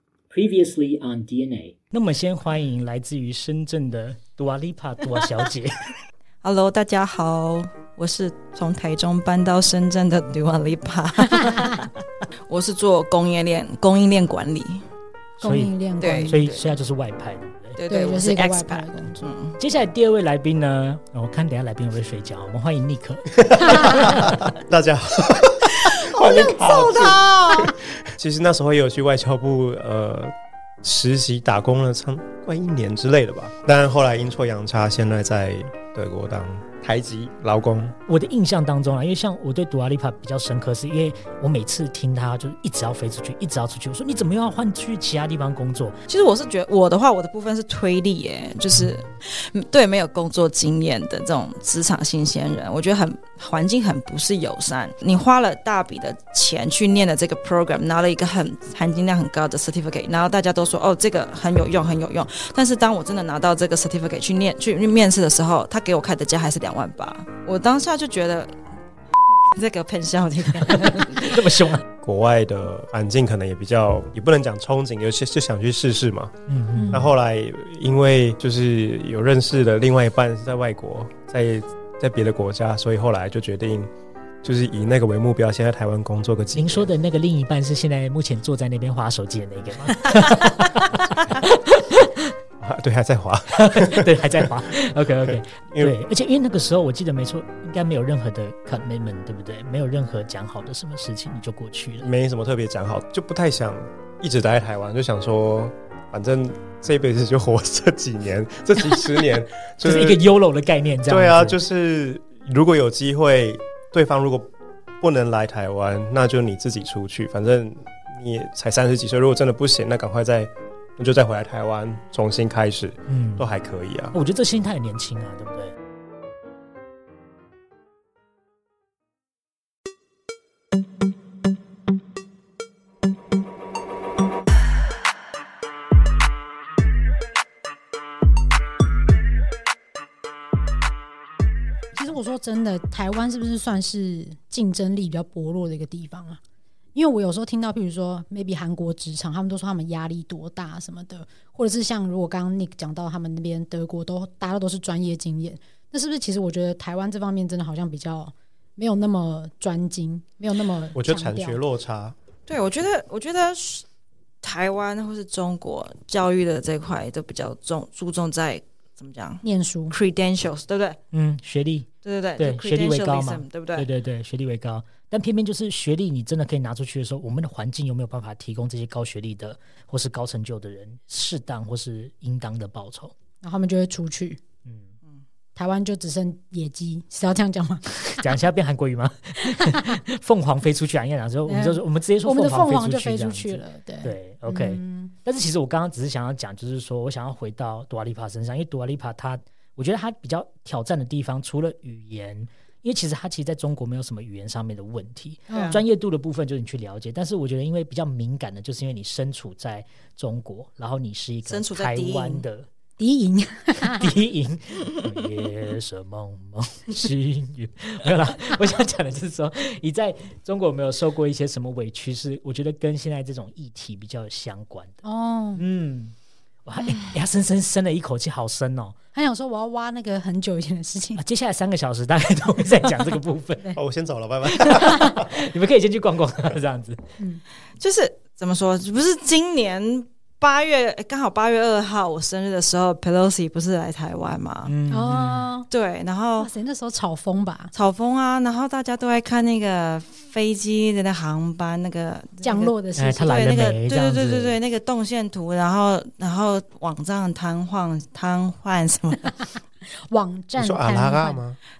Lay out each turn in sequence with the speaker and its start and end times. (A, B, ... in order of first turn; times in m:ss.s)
0:00.3-0:05.9 A
0:06.4-0:11.9 B
0:12.5-0:14.8 B
0:15.4-0:15.7 A
0:15.4-0:16.5 C
0:16.0-0:16.6 B
0:16.2-0:17.8 A
0:17.8-0:19.6 B
0:17.9-0:19.4 C
0:19.6-0:24.4 A
0:23.4-0:38.0 D
0:25.8-0:27.8 B
0:38.0-0:46.0 A
0:46.1-1:08.5 B
1:09.5-1:11.5 B
1:10.6-1:11.8 A
1:12.0-1:16.4 D
1:16.5-1:17.1 A
1:16.7-1:17.1 C
1:16.9-1:23.9 D
1:24.4-1:26.9 D
1:26.5-1:32.3 A
1:32.6-1:34.5 D
1:33.5-1:42.1 A
1:35.2-1:35.9 D
1:42.0-1:50.2 D
1:49.8-1:51.6 A
1:51.1-1:54.5 D
1:55.0-2:04.2 D
2:03.1-2:03.5 A
2:04.1-2:05.8 A
2:21.9-2:26.4 C
2:26.9-2:41.6 C
2:41.0-2:42.2 D
2:42.5-2:43.8 B
2:44.4-2:51.0 B
2:49.4-2:50.0 C
2:51.1-3:03.1 A
2:52.0-2:53.9 B
3:03.4-3:04.4 C
3:04.6-3:04.9 A
3:05.6-3:08.3 C
3:08.2-3:32.7 A
3:09.6-3:09.9 C
3:11.5-3:15.1 C
3:25.5-3:25.8 C
3:25.5-3:25.8 B
3:31.4-3:32.4 B
3:33.0-3:34.1 C
3:33.8-3:45.0 A
3:45.0-3:45.6 C
3:45.6-3:49.0 A
3:49.1-3:51.2 C
3:51.2-3:53.8 A
3:53.7-3:55.4 D
3:54.5-3:57.0 A
3:57.8-4:04.7 B
4:04.6-4:05.5 A
4:04.9-4:05.7 C
4:05.7-4:06.5 B
4:06.4-4:07.7 C
4:07.7-4:19.3 B
4:12.4-4:13.4 C
4:13.0-4:14.6 A
4:20.1-4:21.4 C
4:20.6-4:21.6 D